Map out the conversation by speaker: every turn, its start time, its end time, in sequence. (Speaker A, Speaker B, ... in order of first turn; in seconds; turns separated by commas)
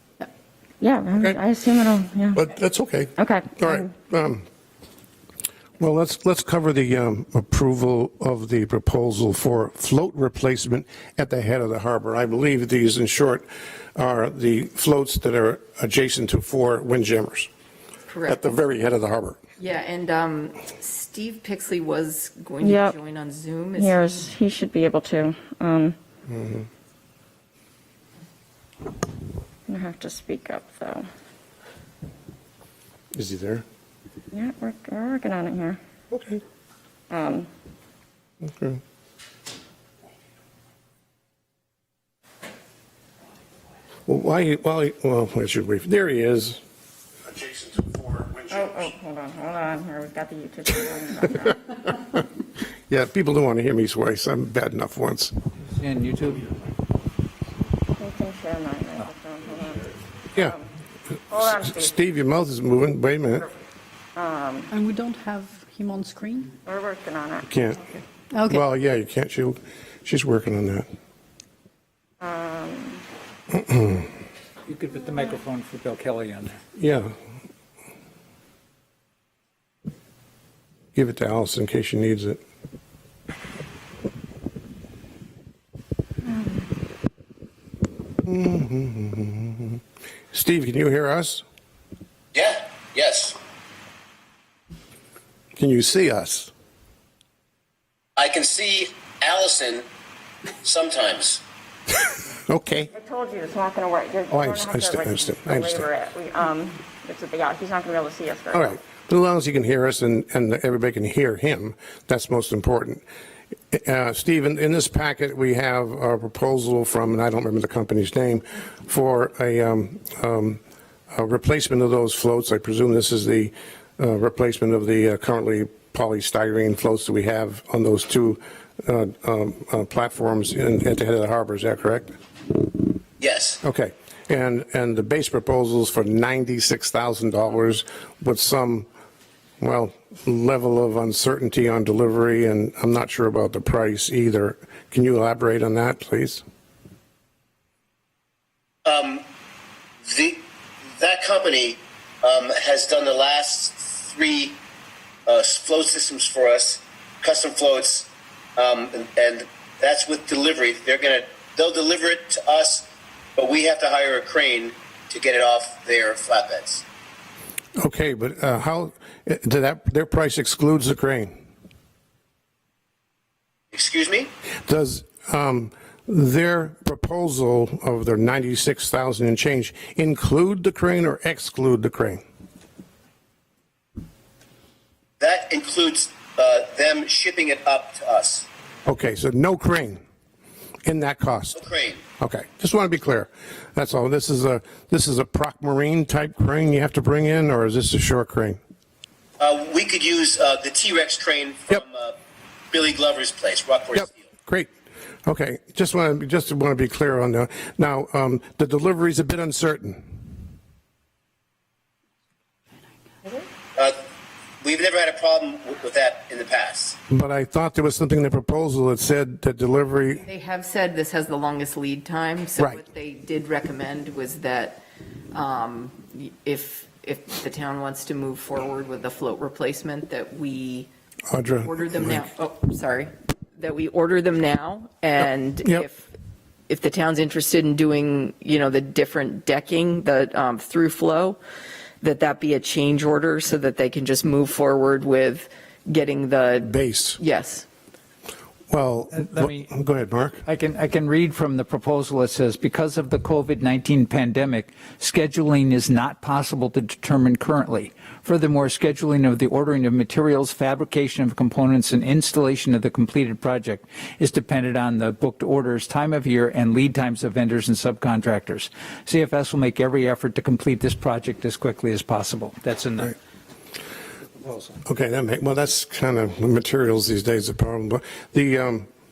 Speaker A: 0.8-2.5, Speaker B: 2.3-4.4, Speaker A: 3.1-3.9, Speaker B: 5.8-17.5, Speaker C: 18.1-18.6, Speaker B: 18.3-19.4, Speaker C: 19.6-24.3, Speaker A: 22.6-22.9, Speaker A: 23.7-25.9, Speaker B: 26.3-26.7, Speaker A: 29.7-31.1, Speaker B: 33.1-33.6, Speaker A: 34.3-35.8, Speaker B: 36.1-36.4, Speaker A: 37.1-37.5, Speaker B: 38.4-38.8, Speaker B: 44.0-46.6, Speaker B: 47.3-48.9, Speaker A: 48.5-51.6, Speaker B: 51.5-52.2, Speaker B: 52.9-55.4, Speaker D: 55.7-56.5, Speaker A: 57.9-60.7, Speaker A: 61.3-61.9, Speaker B: 61.3-63.5, Speaker A: 64.2-64.7, Speaker E: 64.7-66.6, Speaker A: 66.6-67.5, Speaker B: 67.5-67.9, Speaker E: 68.3-68.6, Speaker B: 68.5-70.9, Speaker A: 72.2-73.0, Speaker B: 73.5-74.1, Speaker D: 74.7-76.6, Speaker B: 76.8-77.1, Speaker B: 80.9-82.4, Speaker B: 88.2-89.8, Speaker B: 90.3-91.4, Speaker F: 92.3-93.4, Speaker B: 95.6-96.5, Speaker F: 98.2-99.8, Speaker F: 100.6-101.4, Speaker B: 102.4-102.9, Speaker A: 102.9-108.7, Speaker B: 104.3-105.9, Speaker B: 108.5-113.0, Speaker B: 113.7-120.6, Speaker B: 121.1-132.1, Speaker F: 133.2-133.6, Speaker B: 133.6-138.9, Speaker B: 139.6-146.4, Speaker F: 148.8-149.2, Speaker F: 150.0-154.6, Speaker F: 155.2-166.8, Speaker B: 167.8-171.3, Speaker F: 173.7-174.3, Speaker B: 174.7-182.2, Speaker F: 185.2-188.4, Speaker B: 188.8-190.0, Speaker B: 190.8-191.6, Speaker F: 191.5-192.0, Speaker B: 192.2-198.6, Speaker F: 199.4-202.2, Speaker F: 202.7-204.2, Speaker B: 203.9-204.7, Speaker B: 205.2-210.0, Speaker F: 214.6-216.9, Speaker B: 217.1-220.2, Speaker C: 220.2-230.9, Speaker B: 231.3-232.2, Speaker C: 231.6-236.1, Speaker C: 236.7-241.4, Speaker C: 242.0-247.7, Speaker B: 246.6-247.2, Speaker B: 248.7-250.4, Speaker D: 249.1-249.7, Speaker D: 250.4-273.1, Speaker D: 274.4-274.8, Speaker B: 274.8-278.9